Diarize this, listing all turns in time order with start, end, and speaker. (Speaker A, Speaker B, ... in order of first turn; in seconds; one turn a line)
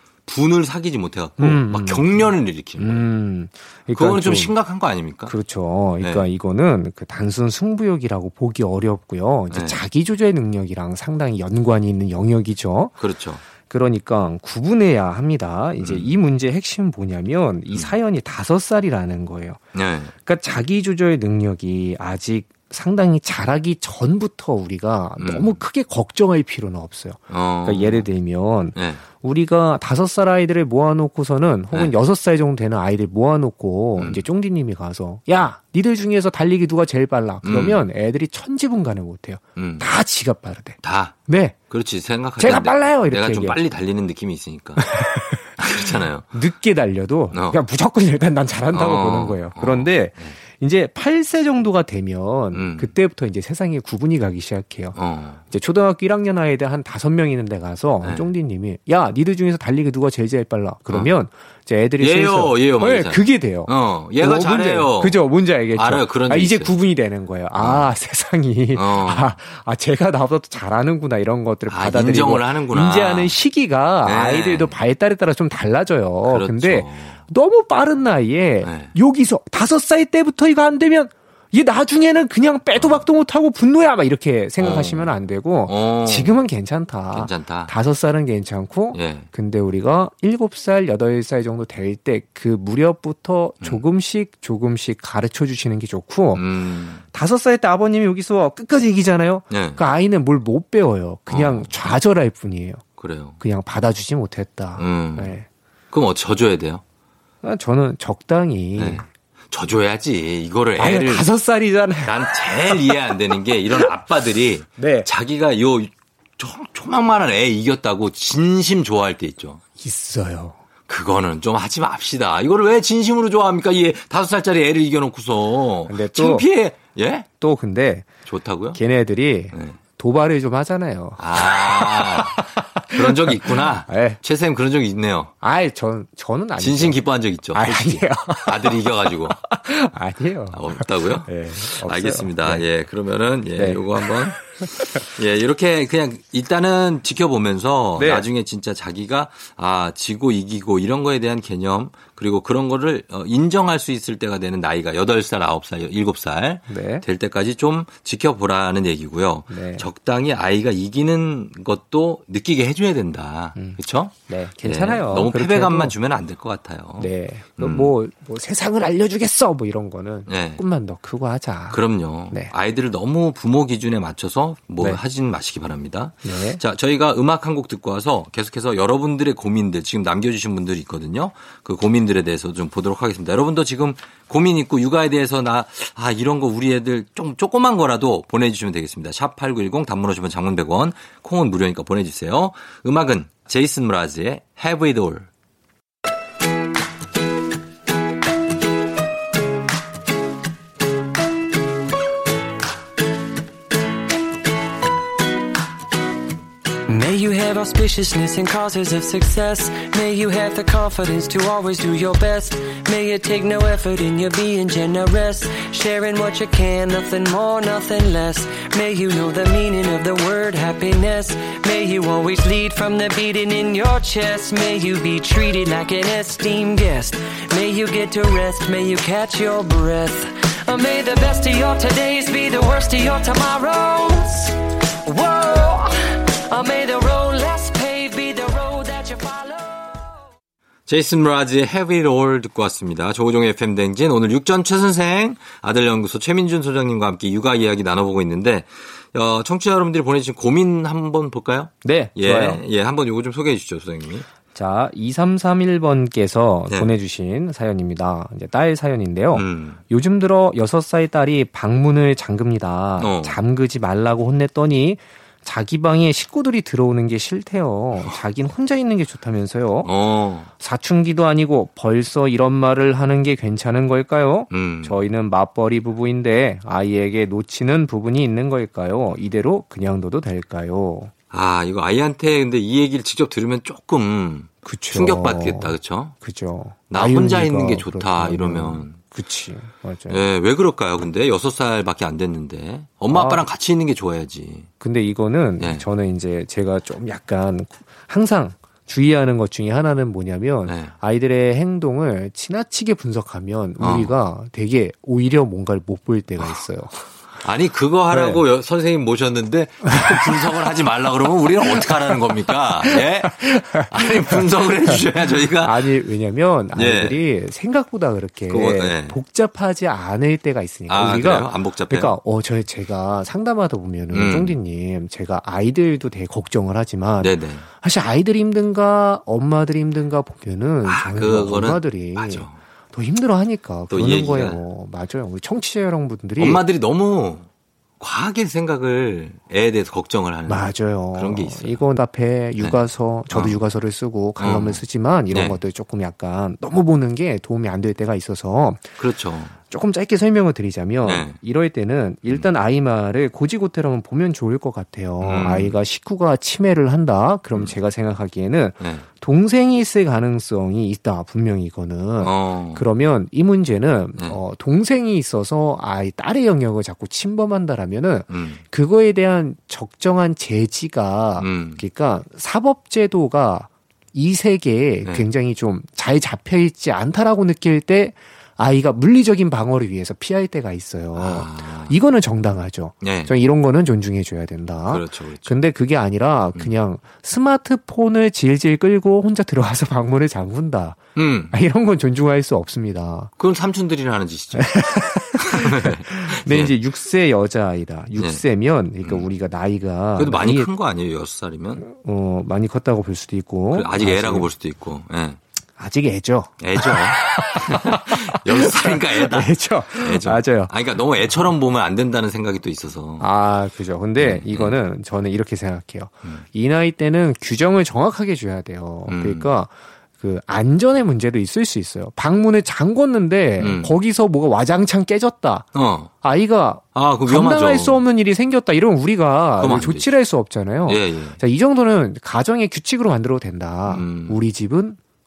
Speaker A: 0.3-3.1
Speaker B: 1.4-4.5
Speaker A: 4.0-5.3
Speaker B: 5.3-13.0
Speaker A: 6.0-6.3
Speaker A: 9.5-9.8
Speaker A: 13.0-13.4
Speaker B: 13.6-19.6
Speaker A: 15.8-16.1
Speaker A: 19.8-20.1
Speaker B: 20.2-41.6
Speaker A: 25.2-25.6
Speaker A: 27.3-28.1
Speaker A: 28.7-29.0
Speaker A: 34.0-34.2
Speaker A: 37.4-37.8
Speaker A: 39.6-39.9
Speaker A: 40.8-41.2
Speaker A: 41.7-44.9
Speaker B: 42.4-43.6
Speaker B: 44.8-55.0
Speaker A: 45.6-46.3
Speaker A: 47.3-47.6
Speaker A: 48.7-50.4
Speaker A: 52.5-52.9
Speaker A: 55.0-55.4
Speaker B: 55.5-96.4
Speaker A: 58.0-58.3
Speaker A: 60.9-61.2
Speaker A: 62.0-65.2
Speaker A: 65.7-66.8
Speaker A: 67.6-67.9
Speaker A: 68.7-69.3
Speaker A: 71.7-73.3
Speaker A: 74.0-74.7
Speaker A: 76.3-77.2
Speaker A: 78.6-78.9
Speaker A: 82.8-83.0
Speaker A: 84.6-85.1
Speaker A: 85.7-86.4
Speaker A: 87.1-87.7
Speaker A: 88.9-89.3
Speaker A: 96.3-97.0
Speaker B: 97.1-102.8
Speaker A: 99.5-99.8
Speaker A: 101.3-102.0
Speaker A: 103.0-103.4
Speaker B: 103.4-105.5
Speaker A: 104.8-105.3
Speaker A: 105.9-106.8
Speaker B: 107.4-109.0
Speaker A: 108.8-111.3
Speaker B: 110.8-113.8
Speaker A: 112.0-119.6
Speaker B: 114.8-115.1
Speaker B: 119.8-120.6
Speaker A: 120.9-127.3
Speaker B: 125.9-126.5
Speaker B: 127.4-128.1
Speaker A: 128.3-128.8
Speaker B: 128.8-134.2
Speaker A: 129.5-129.8
Speaker A: 131.2-135.3
Speaker B: 135.4-138.9
Speaker A: 136.6-139.4
Speaker B: 139.4-142.7
Speaker A: 140.5-167.9
Speaker B: 143.6-145.1
Speaker B: 148.0-148.3
Speaker B: 156.7-157.1
Speaker B: 159.5-159.9
Speaker B: 163.6-165.9
Speaker B: 167.0-172.5
Speaker A: 170.3-170.6
Speaker A: 171.7-195.3
Speaker B: 176.2-176.6
Speaker C: 206.9-235.9
Speaker C: 236.5-240.2
Speaker A: 240.9-254.3
Speaker B: 251.8-252.6
Speaker B: 254.5-269.9
Speaker A: 256.7-257.0
Speaker A: 259.3-259.8
Speaker A: 263.0-263.4
Speaker A: 269.8-270.5
Speaker B: 270.6-281.1
Speaker A: 274.5-275.1
Speaker A: 281.3-286.2
Speaker B: 284.6-290.2
Speaker A: 286.9-289.0
Speaker A: 290.1-294.7
Speaker B: 293.1-293.4
Speaker B: 294.8-307.1
Speaker A: 295.6-295.9
Speaker A: 300.6-300.9
Speaker A: 303.8-304.1
Speaker A: 307.4-315.9
Speaker B: 308.1-308.4
Speaker B: 309.9-310.6
Speaker B: 312.8-315.0
Speaker B: 315.6-336.6
Speaker A: 316.8-317.2
Speaker A: 318.5-319.2
Speaker A: 320.9-322.1
Speaker A: 324.1-324.6
Speaker A: 327.2-327.7
Speaker A: 330.9-332.6
Speaker A: 333.9-334.6
Speaker A: 336.4-337.5
Speaker A: 338.0-341.9
Speaker B: 340.5-348.9
Speaker A: 343.3-343.6
Speaker A: 344.4-345.6
Speaker A: 349.0-349.6
Speaker B: 349.7-393.3
Speaker A: 351.0-351.4
Speaker A: 355.2-355.7
Speaker A: 358.8-359.1
Speaker A: 362.2-362.8
Speaker A: 368.3-368.6
Speaker A: 371.4-371.8
Speaker A: 381.2-381.9
Speaker A: 383.0-383.3
Speaker A: 384.9-385.5
Speaker A: 391.2-391.6
Speaker A: 393.4-394.8
Speaker B: 394.6-400.7
Speaker A: 395.4-396.7
Speaker A: 399.0-399.3
Speaker A: 400.2-401.8
Speaker B: 401.8-404.5
Speaker A: 403.7-405.4
Speaker B: 405.8-410.7
Speaker A: 406.6-413.3
Speaker B: 413.2-425.7
Speaker A: 414.2-414.8
Speaker A: 419.1-419.5
Speaker A: 423.6-423.9
Speaker A: 425.7-426.1
Speaker B: 426.2-435.0
Speaker A: 426.9-428.0
Speaker A: 429.6-430.1
Speaker A: 430.9-431.4
Speaker A: 433.9-434.4